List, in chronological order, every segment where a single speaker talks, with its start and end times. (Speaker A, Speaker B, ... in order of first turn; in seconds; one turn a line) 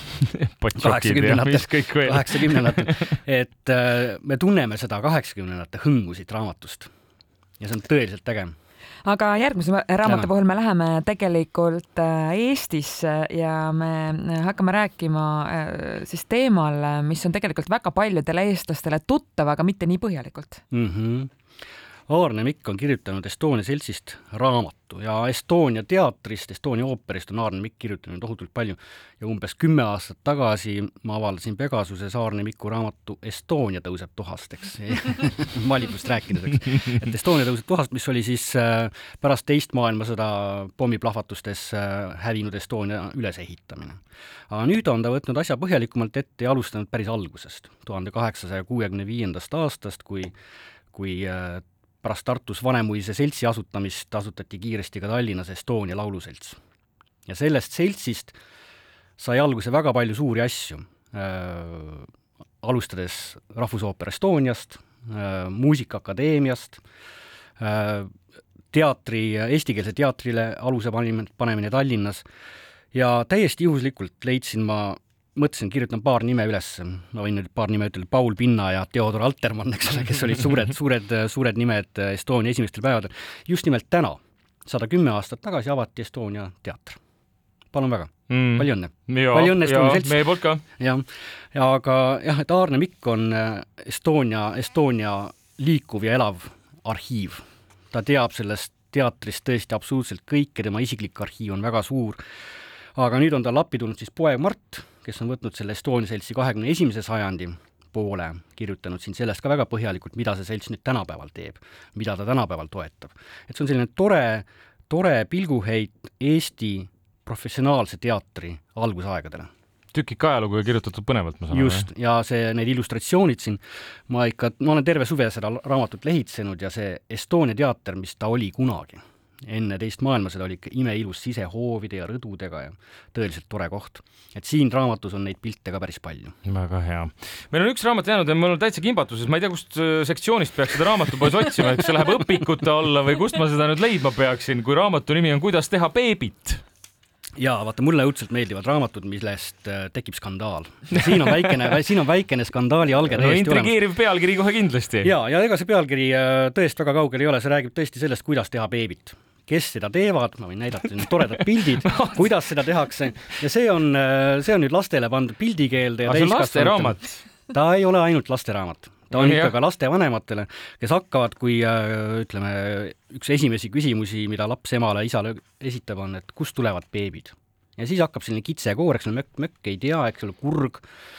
Speaker A: 0.2-3.1
Speaker B: 0.8-6.9
Speaker B: 7.6-8.5
Speaker C: 9.0-20.6
Speaker B: 10.0-10.3
Speaker B: 20.7-21.3
Speaker B: 22.1-50.3
Speaker B: 50.9-56.6
Speaker B: 57.3-58.4
Speaker B: 59.2-62.1
Speaker B: 62.6-66.8
Speaker B: 67.6-68.1
Speaker B: 68.7-72.2
Speaker B: 72.9-87.0
Speaker B: 87.7-102.2
Speaker A: 88.3-90.6
Speaker B: 103.0-119.5
Speaker A: 119.9-121.9
Speaker B: 121.5-136.3
Speaker A: 136.4-146.6
Speaker B: 147.4-153.8
Speaker A: 151.0-151.5
Speaker A: 153.1-155.1
Speaker B: 155.0-180.8
Speaker A: 161.9-162.3
Speaker A: 166.1-167.2
Speaker A: 169.1-169.5